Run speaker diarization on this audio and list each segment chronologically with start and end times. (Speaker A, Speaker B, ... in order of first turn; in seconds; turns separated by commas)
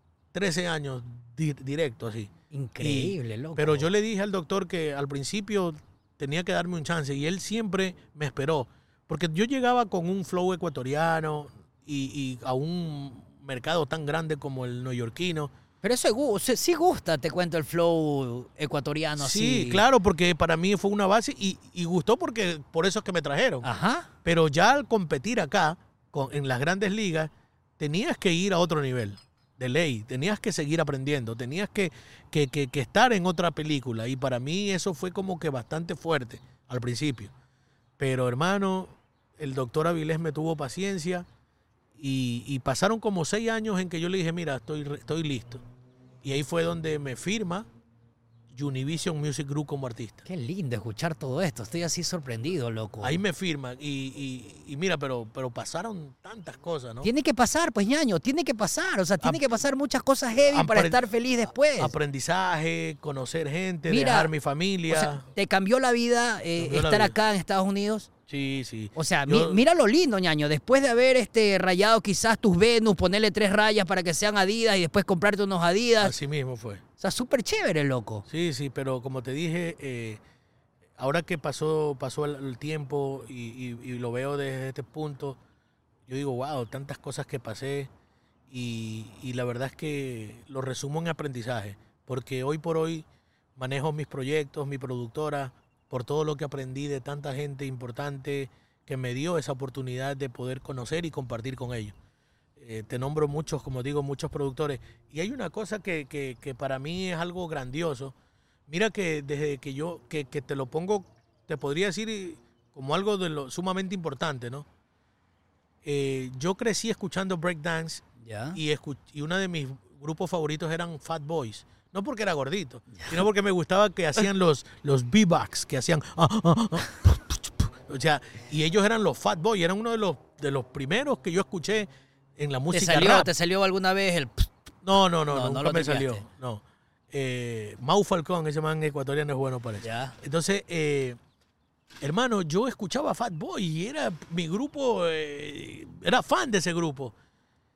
Speaker A: 0.3-15.5, Speaker B: 2.5-3.9, Speaker B: 15.8-19.8, Speaker A: 19.2-23.7, Speaker B: 23.6-24.1, Speaker A: 24.2-37.3, Speaker A: 38.0-41.2, Speaker A: 42.0-45.6, Speaker A: 46.2-47.6, Speaker A: 48.5-50.2, Speaker B: 50.2-53.2, Speaker A: 53.0-57.1, Speaker B: 57.0-61.9, Speaker A: 60.5-61.0, Speaker A: 61.8-65.2, Speaker B: 63.9-64.3, Speaker B: 64.9-68.1, Speaker A: 66.6-67.1, Speaker A: 68.3-69.6, Speaker B: 68.9-76.1, Speaker A: 76.0-76.8, Speaker B: 77.0-78.2, Speaker A: 78.3-80.2, Speaker A: 81.0-85.4, Speaker A: 86.1-87.9, Speaker A: 88.5-93.0, Speaker A: 93.6-101.9, Speaker A: 102.6-108.1, Speaker A: 108.7-114.6, Speaker A: 115.8-131.9, Speaker B: 118.2-118.6, Speaker B: 123.0-123.2, Speaker A: 132.4-133.3, Speaker B: 132.7-134.5, Speaker A: 134.8-141.2, Speaker B: 135.3-136.2, Speaker B: 139.8-140.2, Speaker A: 142.0-147.1